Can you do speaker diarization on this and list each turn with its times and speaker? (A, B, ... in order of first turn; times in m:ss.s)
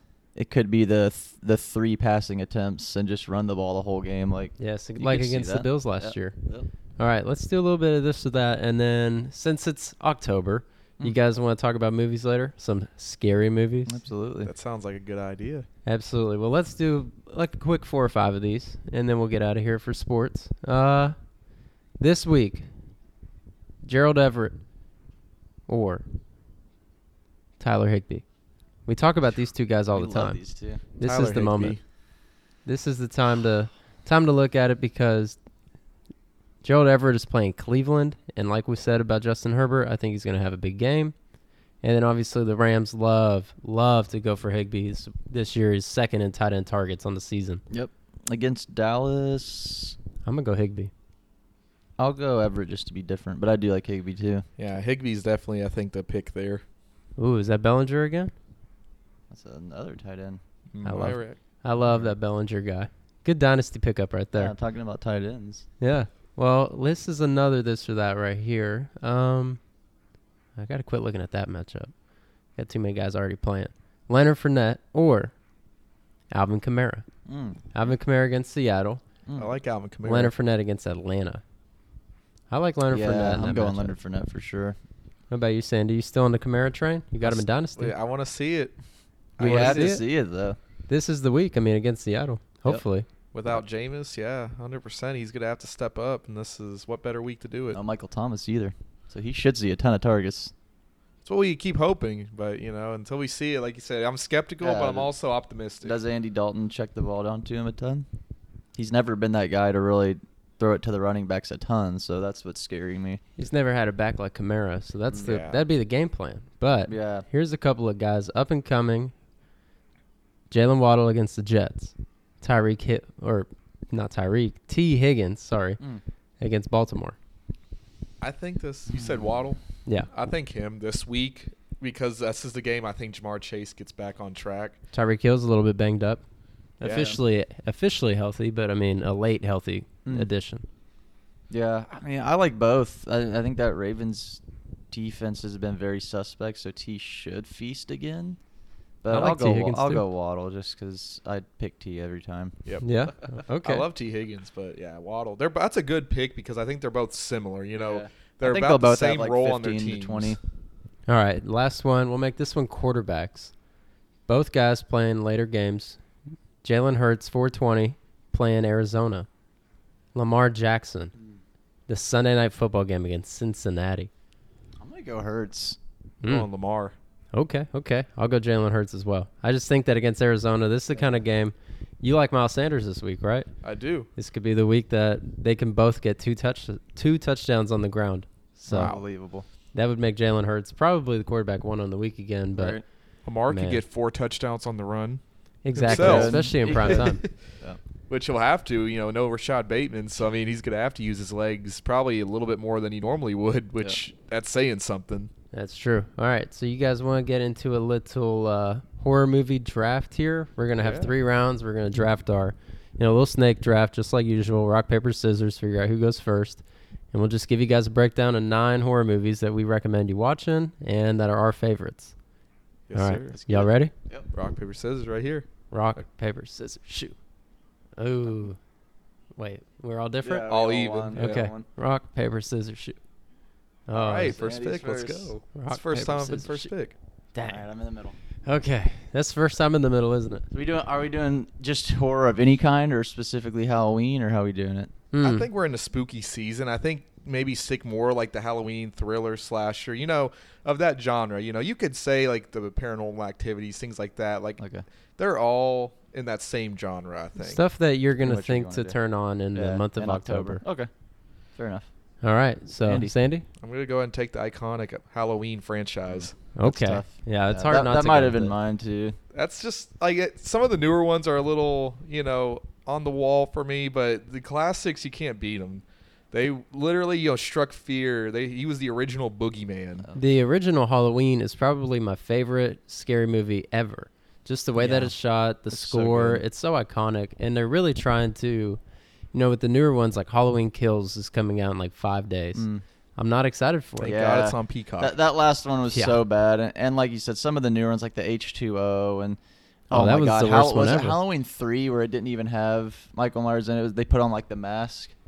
0:00.4-0:06.7 A
0:04.6-0:06.4 B
0:07.0-0:14.0 B
0:13.9-0:14.5 A
0:14.4-0:15.7 C
0:15.9-0:21.2 B
0:22.0-0:22.7 B
0:23.8-0:24.6 B
0:25.7-0:26.0 B
0:27.6-0:28.2 B
0:28.9-0:30.4 B
0:29.9-0:30.9 A
0:31.0-0:31.8 B
0:31.0-0:31.8 C
0:32.6-0:35.4 B
0:36.6-0:41.1 B
0:41.8-0:47.6 B
0:47.7-0:50.0 A
0:50.2-0:50.9 B
0:52.0-0:54.4 A
0:54.6-0:56.6 C
0:57.2-0:58.3 B
0:59.3-1:00.4 A
1:00.7-1:01.4 C
1:00.8-1:04.5 B
1:04.4-1:05.7 A
1:05.8-1:09.6 B
1:10.6-1:11.9 B
1:12.6-1:15.3 B
1:16.3-1:17.0 B
1:17.3-1:17.6 A
1:17.7-1:19.0 B
1:19.3-1:19.5 A
1:19.4-1:20.3 C
1:20.0-1:21.4 B
1:22.5-1:23.9 B
1:22.9-1:24.8 A
1:25.3-1:28.0 B
1:27.2-1:28.8 C
1:29.4-1:30.0 C
1:29.4-1:30.0 B
1:29.4-1:30.6 A
1:30.9-1:33.1 B
1:33.3-1:37.8 C
1:37.7-1:40.5 A
1:41.2-1:46.0 C
1:44.6-1:45.1 A
1:45.8-1:48.1 A
1:48.8-1:53.2 A
1:53.4-1:59.1 B
1:55.1-1:55.4 A
1:55.2-1:55.7 C
1:56.9-1:57.3 A
2:00.5-2:05.8 B
2:06.4-2:07.2 B
2:08.2-2:14.8 C
2:14.9-2:16.2 B
2:16.8-2:20.7 B
2:16.8-2:17.2 C
2:16.9-2:17.2 A
2:21.5-2:28.4 A
2:29.0-2:32.6 A
2:29.1-2:30.0 B
2:32.8-2:33.9 B
2:33.6-2:40.4 C
2:37.8-2:40.4 A
2:41.1-2:43.5 B
2:44.3-2:46.0 B
2:46.6-2:49.3 B
2:50.2-2:51.1 B
2:51.9-2:54.1 B
2:54.8-2:55.8 A
2:56.2-2:56.5 B
2:56.2-2:57.0 C
2:57.3-3:03.5 B
3:00.9-3:01.2 A
3:03.6-3:04.1 C
3:04.2-3:09.0 B
3:08.7-3:09.5 A
3:08.7-3:09.0 C
3:09.7-3:12.8 B
3:12.5-3:12.8 A
3:13.2-3:15.2 C
3:13.5-3:13.8 B
3:15.6-3:17.2 B
3:15.7-3:17.3 C
3:15.8-3:17.8 A
3:18.1-3:25.3 C
3:25.5-3:42.1 B
3:30.8-3:31.1 C
3:42.9-3:43.4 C
3:42.9-3:43.9 B
3:43.3-3:44.3 A
3:44.3-3:45.5 C
3:45.7-3:47.2 B
3:48.0-3:48.6 B
3:49.4-3:50.4 B
3:50.2-3:51.7 A
3:50.5-3:51.5 C
3:51.1-3:53.0 B
3:53.9-3:54.4 B
3:53.9-3:57.0 C
3:54.2-3:55.4 A
3:55.5-3:56.7 B
3:57.3-3:57.6 B
3:57.4-3:58.2 A
3:58.4-4:00.5 B
4:00.5-4:04.9 A
4:05.1-4:05.5 B
4:05.2-4:14.6 C
4:14.6-4:14.8 A
4:15.2-4:17.6 C
4:17.4-4:20.6 B
4:18.2-4:19.0 A
4:19.5-4:20.9 A
4:21.6-4:21.9 A
4:22.2-4:23.5 B
4:22.8-4:23.1 A
4:23.6-4:26.4 C
4:26.1-4:29.2 A
4:26.6-4:28.5 B
4:29.3-4:40.1 C
4:40.2-4:48.8 B
4:44.8-4:45.2 A
4:45.7-4:46.4 A
4:49.3-4:54.2 B
4:52.6-4:52.8 A
4:54.0-4:55.2 C
4:54.1-4:59.4 A
4:55.9-4:56.2 B
4:59.9-5:01.2 B
4:59.9-5:05.1 A